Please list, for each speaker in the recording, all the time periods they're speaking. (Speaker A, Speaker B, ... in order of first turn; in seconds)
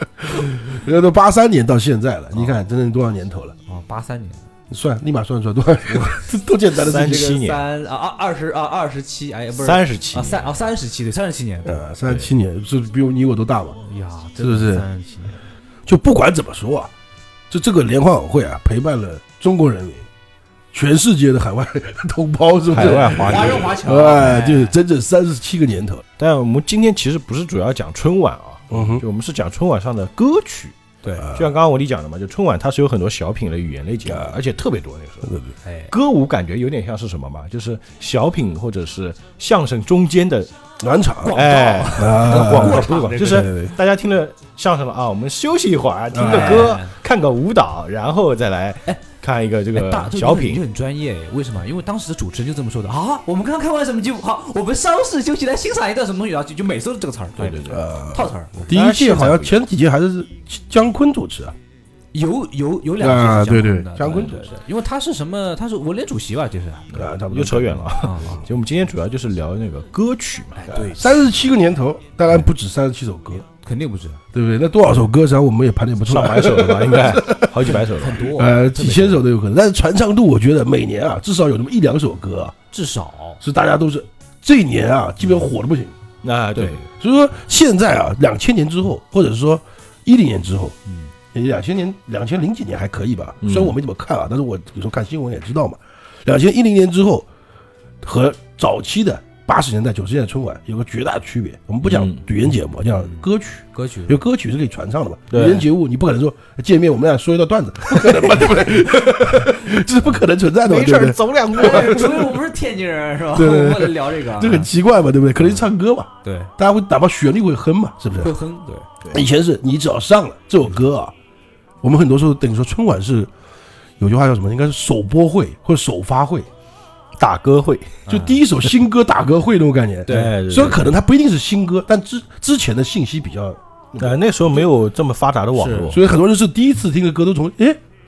Speaker A: 0.2-3.5, 4.7-7.4, 11.6-13.8, 14.4-14.8, 15.8-16.9, 17.5-20.0, 20.7-26.0, 28.7-29.0, 31.2-31.5, 34.1-34.4, 40.8-43.7, 46.1-46.7, 57.7-61.5, 63.0-64.5, 66.9-68.0, 70.7-73.4, 74.3-82.5, 83.4-85.9, 86.9-90.8, 91.3-97.3, 98.0-112.3, 113.3-118.3, 119.1-121.1, 121.8-123.3, 124.0-126.5, 128.1-134.2, 135.9-137.8
Speaker B: 3.7-4.4, 5.9-6.2, 7.0-11.8, 13.8-15.4, 22.8-24.7, 31.0-31.3, 35.6-35.9, 41.2-43.5, 46.3-46.9, 49.7-58.7, 62.1-66.9, 68.0-68.4, 70.5-71.2, 73.5-74.2, 77.7-79.2, 82.7-83.4, 103.7-104.2, 111.5-114.7, 116.2-116.5, 118.2-118.9, 128.1-128.4, 130.1-130.4, 135.5-135.9
Speaker C: 6.8-7.6, 9.6-10.5, 22.7-24.3, 26.2-30.8, 31.3-35.3, 35.9-40.5, 41.3-50.6, 57.4-57.8, 58.7-59.5, 66.9-70.6, 76.1-78.3, 86.2-86.8, 93.4-93.7, 101.8-102.2, 105.3-105.7, 110.6-112.3, 127.2-128.0, 130.1-130.9, 134.0-136.0